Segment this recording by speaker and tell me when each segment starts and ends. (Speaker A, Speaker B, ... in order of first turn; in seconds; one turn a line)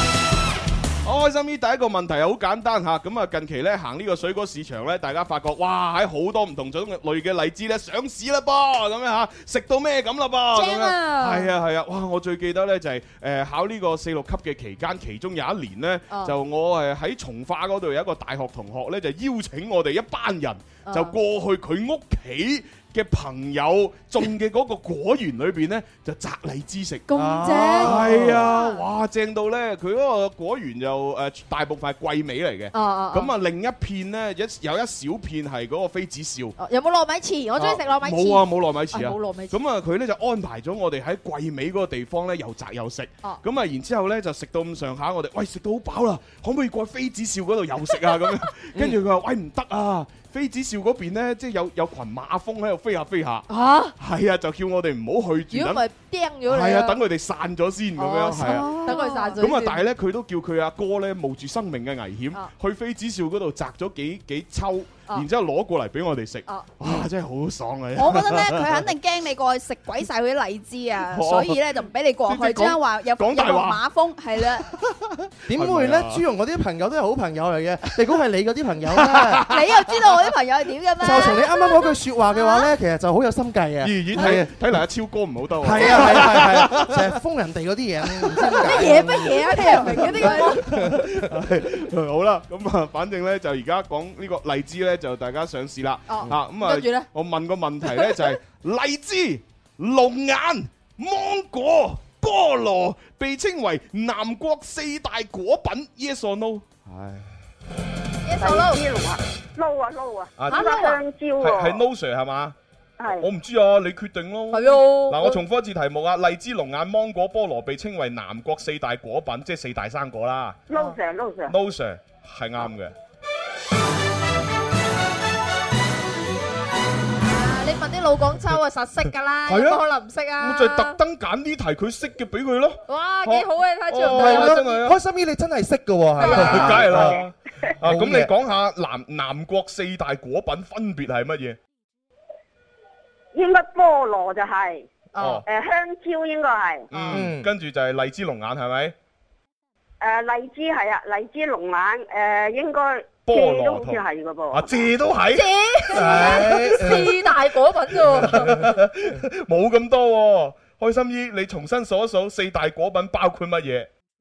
Speaker A: 1.0-27.1
Speaker B: 10.6-11.5
Speaker B: 20.9-21.1
Speaker B: 27.1-28.8
Speaker C: 27.1-28.5
Speaker A: 27.7-36.6
Speaker B: 32.7-33.3
Speaker B: 36.6-39.6
Speaker A: 37.6-53.5
Speaker B: 53.5-53.9
Speaker A: 54.0-55.9
Speaker B: 55.5-57.0
Speaker A: 56.5-68.9
Speaker B: 58.0-59.8
Speaker D: 58.3-59.4
Speaker D: 68.0-74.7
Speaker A: 71.1-73.8
Speaker C: 75.5-79.5
Speaker A: 75.5-76.2
Speaker A: 79.0-79.8
Speaker D: 79.5-81.5
Speaker C: 81.0-84.5
Speaker A: 83.8-87.1
Speaker C: 85.6-91.3
Speaker B: 88.5-90.6
Speaker A: 90.7-107.3
Speaker B: 96.1-97.1
Speaker B: 108.2-108.8
Speaker E: 108.4-111.8
Speaker A: 110.4-110.8
Speaker B: 110.5-111.0
Speaker A: 111.4-112.6
Speaker E: 113.0-113.3
Speaker A: 113.2-120.6
Speaker B: 114.5-115.4
Speaker E: 120.7-121.5
Speaker A: 121.5-122.9
Speaker B: 127.2-131.0
Speaker A: 129.5-129.8
Speaker A: 130.4-135.0
Speaker B: 132.9-134.7
Speaker C: 134.0-137.2
Speaker B: 136.2-137.0
Speaker A: 136.2-141.6
Speaker C: 137.8-138.3
Speaker E: 143.3-144.9
Speaker B: 145.2-145.4
Speaker A: 145.2-145.4
Speaker E: 145.5-147.2
Speaker A: 146.9-148.9
Speaker C: 147.1-147.5
Speaker E: 150.0-154.9
Speaker A: 153.3-156.5
Speaker B: 155.3-158.6
Speaker C: 155.9-157.2
Speaker A: 158.2-163.9
Speaker C: 158.2-158.7